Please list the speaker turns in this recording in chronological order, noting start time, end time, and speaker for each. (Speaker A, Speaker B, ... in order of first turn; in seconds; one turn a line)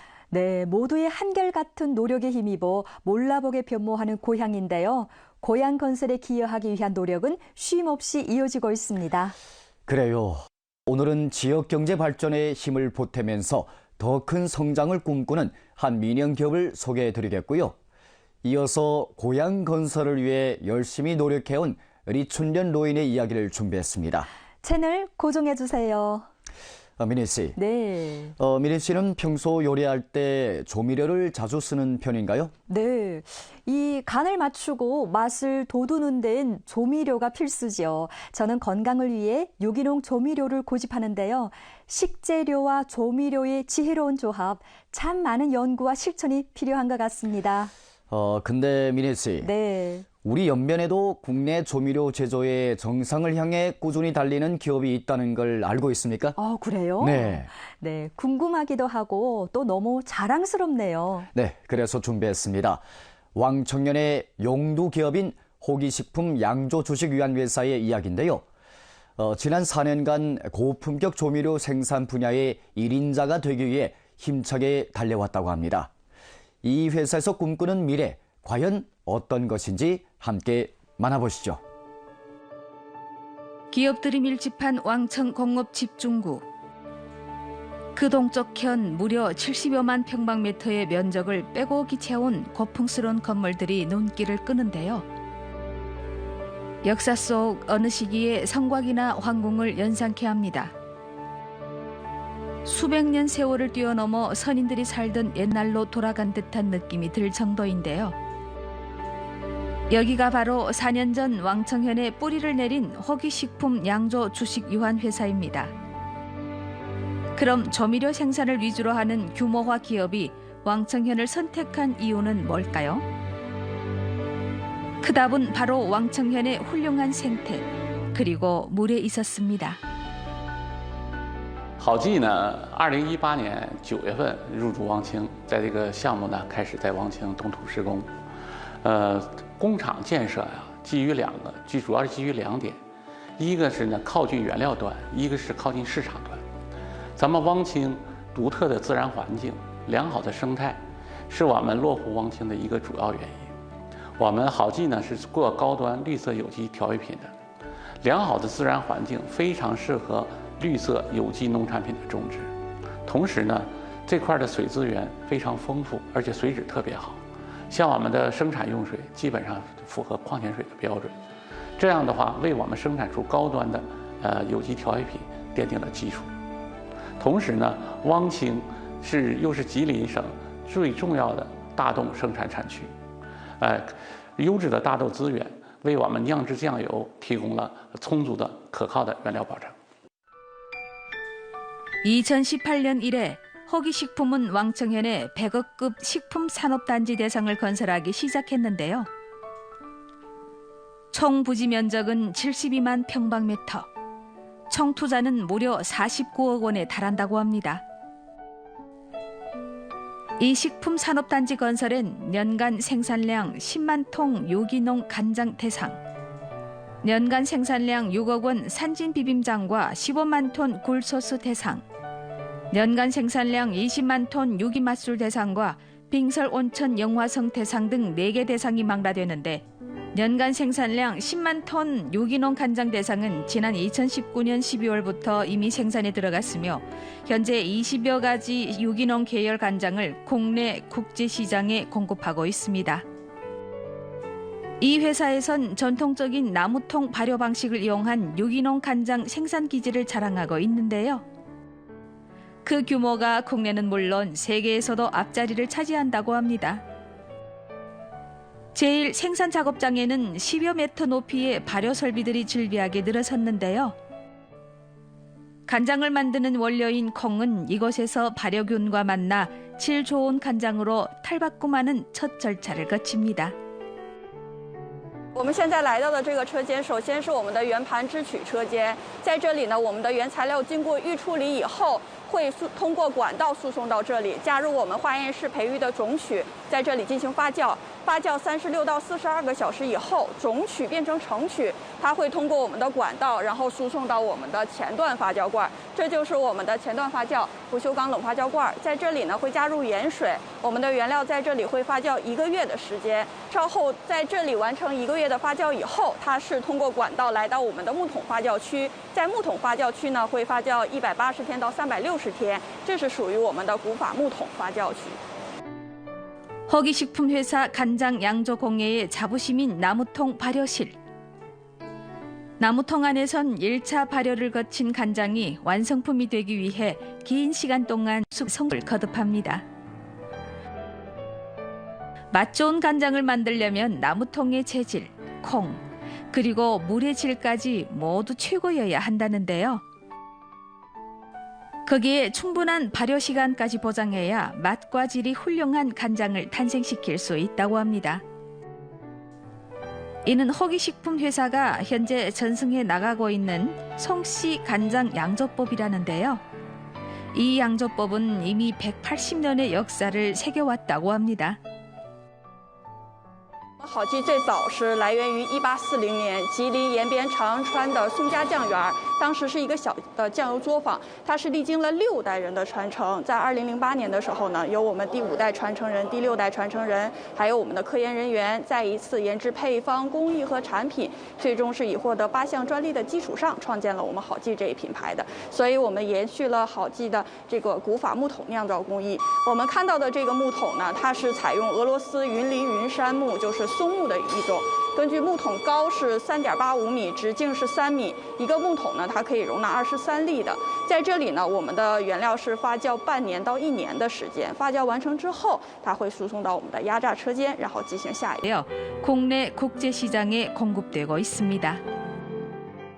Speaker A: 0.3-9.4
Speaker B: 9.9-17.8
Speaker B: 18.4-24.3
Speaker A: 24.6-26.3
Speaker B: 27.0-27.6
Speaker A: 27.6-28.3
Speaker B: 28.4-32.5
Speaker A: 32.7-47.7
Speaker B: 48.1-49.5
Speaker A: 49.4-50.1
Speaker B: 50.2-56.4
Speaker A: 56.4-61.3
Speaker B: 57.0-57.5
Speaker B: 61.3-62.8
Speaker B: 63.4-68.5
Speaker B: 69.2-75.9
Speaker B: 76.6-81.6
Speaker C: 83.7-86.4
Speaker C: 88.0-95.1
Speaker C: 96.8-100.7
Speaker C: 102.7-108.2
Speaker C: 109.9-115.7
Speaker C: 117.4-123.0
Speaker C: 125.0-129.8
Speaker D: 131.8-138.1
Speaker D: 138.8-142.8
Speaker D: 143.4-146.4
Speaker D: 147.2-153.5
Speaker D: 154.2-157.3
Speaker D: 158.0-162.5
Speaker D: 163.1-171.1
Speaker D: 171.8-176.3
Speaker D: 177.2-182.9
Speaker D: 183.6-189.7
Speaker C: 192.0-199.1
Speaker C: 201.1-203.9
Speaker C: 204.7-207.8
Speaker C: 210.4-216.0
Speaker C: 217.0-221.8
Speaker C: 222.7-229.6
Speaker C: 230.1-243.0
Speaker C: 244.8-251.2
Speaker C: 252.7-256.8
Speaker C: 258.7-263.9
Speaker C: 265.7-273.5
Speaker E: 275.4-315.2
Speaker C: 316.7-321.0
Speaker C: 322.6-329.6
Speaker C: 332.3-335.8
Speaker C: 336.3-339.8
Speaker C: 341.9-348.2
Speaker C: 350.2-356.4
Speaker C: 357.3-361.6
Speaker E: 363.8-408.4
Speaker C: 408.4-411.8